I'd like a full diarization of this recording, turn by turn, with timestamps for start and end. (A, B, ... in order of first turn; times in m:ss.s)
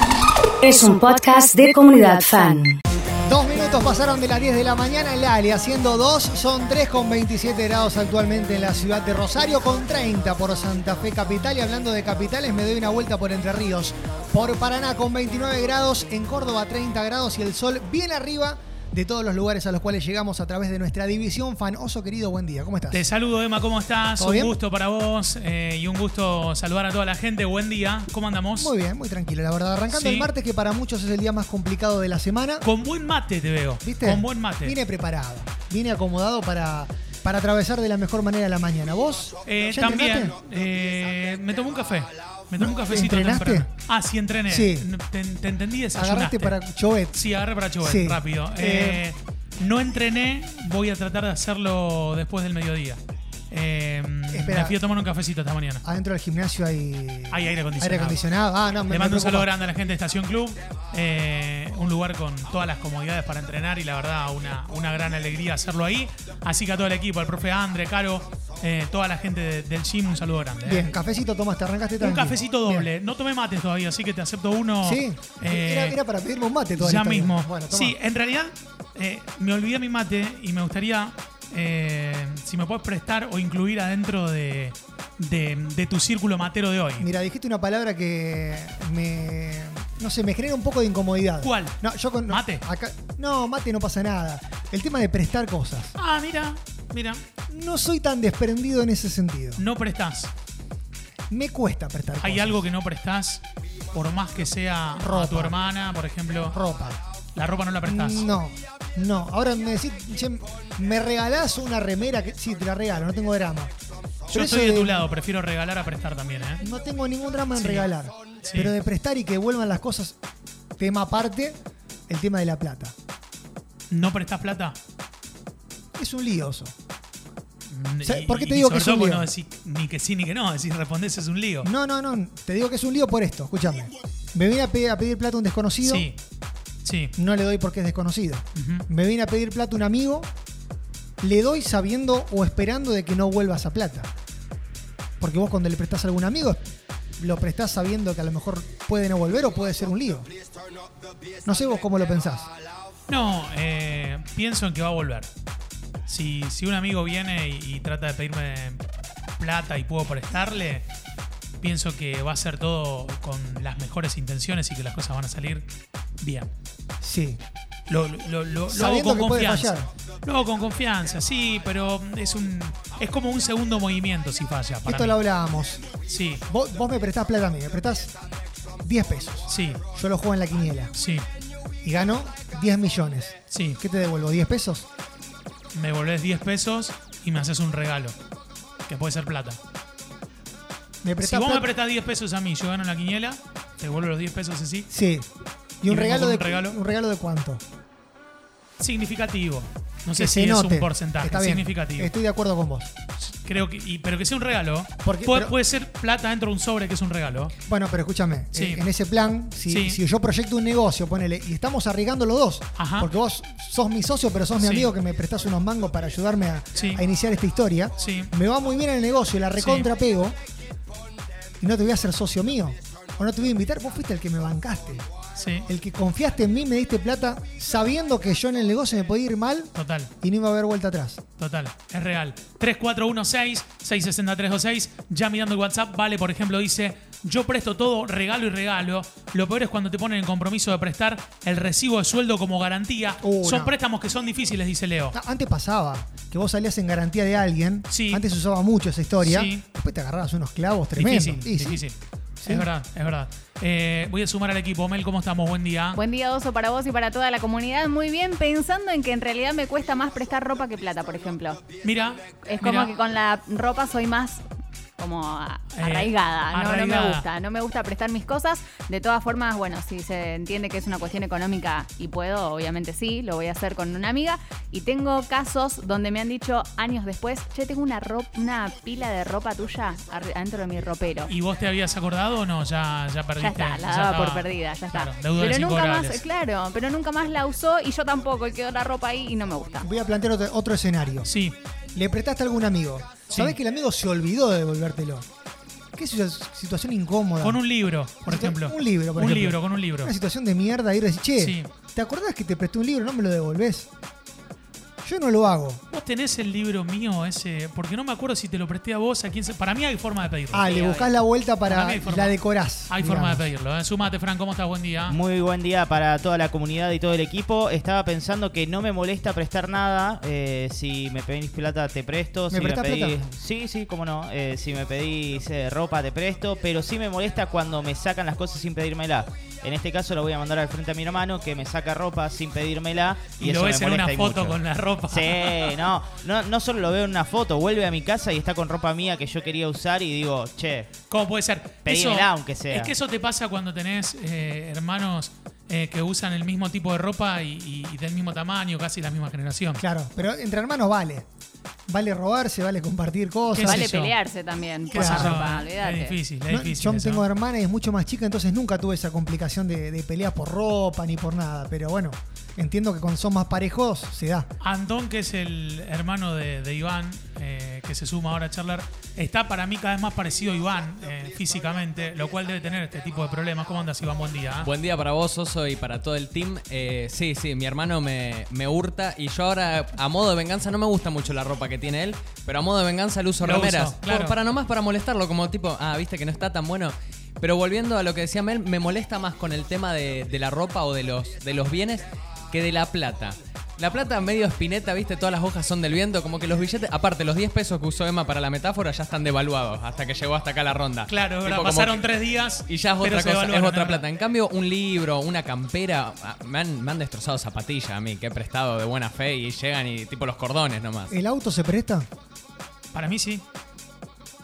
0:00.6-0:02.7 A
0:03.3-0:23.0 B
0:22.9-0:28.7 C
0:24.2-0:24.6 B
0:28.6-0:32.6 B
0:29.9-0:30.3 C
0:32.6-0:34.8 C
0:33.8-0:40.4 B
0:39.4-0:46.6 C
0:42.6-0:43.7 B
0:44.5-0:44.9 B
0:45.9-0:47.2 B
0:47.1-0:53.0 C
0:47.8-0:49.0 B
0:53.5-0:55.8 C
0:54.3-0:54.8 B
0:55.8-0:59.5 B
0:57.3-0:58.2 C
0:58.9-1:10.9 C
1:10.6-1:12.9 B
1:12.0-1:16.0 C
1:14.8-1:18.0 B
1:16.8-1:27.1 C
1:27.0-1:35.9 B
1:31.4-1:32.6 C
1:36.0-1:37.2 C
1:37.5-1:39.6 B
1:39.6-1:40.3 C
1:41.3-1:42.6 B
1:42.2-1:46.6 C
1:45.0-1:45.5 B
1:46.5-1:47.0 B
1:47.3-1:48.3 C
1:47.8-1:53.7 B
1:54.3-1:55.0 B
1:54.3-1:56.6 C
1:56.6-2:00.2 B
1:57.6-1:57.9 C
1:58.4-1:58.7 C
2:00.8-2:01.6 B
2:02.1-2:02.9 B
2:03.9-2:04.8 C
2:06.0-2:06.7 B
2:07.7-2:11.7 C
2:08.0-2:09.3 B
2:11.6-2:16.1 B
2:15.8-2:16.2 C
2:16.8-2:17.1 C
2:17.2-2:20.3 B
2:18.6-2:18.8 C
2:21.2-2:24.1 B
2:25.2-2:26.6 B
2:27.2-2:30.3 B
2:31.4-2:32.5 B
2:33.1-2:35.3 C
2:36.1-2:38.8 C
2:39.4-2:40.8 C
2:41.6-2:45.7 C
2:46.2-2:46.5 C
2:47.0-2:47.4 B
2:47.9-2:55.2 C
2:48.7-2:49.9 B
2:54.8-2:55.8 B
2:56.1-2:56.4 C
2:56.5-2:58.1 B
2:58.8-3:00.9 B
2:59.5-2:59.8 C
3:00.9-3:01.2 C
3:01.8-3:04.9 B
3:03.5-3:03.8 C
3:05.7-3:08.2 C
3:08.9-3:09.6 C
3:11.0-3:11.7 B
3:11.2-3:14.9 C
3:14.9-3:15.3 B
3:15.8-3:17.6 B
3:15.9-3:16.8 C
3:18.8-3:22.1 C
3:20.1-3:22.9 B
3:23.2-3:27.5 C
3:25.0-3:25.5 B
3:27.6-3:40.3 B
3:28.5-3:28.8 C
3:29.7-3:30.0 C
3:32.8-3:33.1 C
3:34.6-3:34.9 C
3:36.7-3:37.0 C
3:38.0-3:38.3 C
3:39.6-3:39.9 C
3:41.6-3:45.1 B
3:45.4-3:45.7 C
3:45.7-3:51.2 B
3:49.7-3:50.1 C
3:51.4-4:05.1 C
4:03.2-4:03.7 B
4:05.1-4:11.8 B
4:07.9-4:08.2 C
4:09.2-4:09.6 C
4:11.0-4:16.0 C
4:12.4-4:12.7 B
4:15.9-4:21.6 D
4:21.8-4:22.9 C
4:22.4-4:24.4 D
4:25.0-4:41.3 D
4:25.7-4:27.2 C
4:41.3-4:46.2 C
4:43.4-4:49.9 D
4:49.8-4:51.3 B
4:51.2-4:51.6 C
4:51.9-4:55.2 B
4:53.3-4:53.6 C
4:55.9-4:57.6 B
4:57.4-5:00.1 C
4:58.2-5:03.9 B
5:01.4-5:01.7 C
5:05.0-5:05.8 B
5:05.9-5:10.7 C
5:10.5-5:13.5 B
5:10.7-5:11.1 D
5:11.6-5:15.2 C
5:15.1-5:34.6 E
5:22.5-5:23.2 B
5:33.4-5:35.8 C
5:35.1-5:40.9 E
5:41.1-5:49.8 C
5:41.8-5:42.9 E
5:49.8-5:51.2 B
5:51.9-5:53.9 B
5:53.5-5:54.1 C
5:53.6-5:56.2 D
5:54.9-5:57.2 C
5:54.9-5:55.4 B
5:56.5-6:04.5 B
6:04.6-6:14.7 C
6:14.6-6:42.0 F
6:23.4-6:24.4 C
6:41.1-6:44.0 C
6:42.6-6:51.1 F
6:51.1-6:52.1 B
6:52.9-6:53.4 C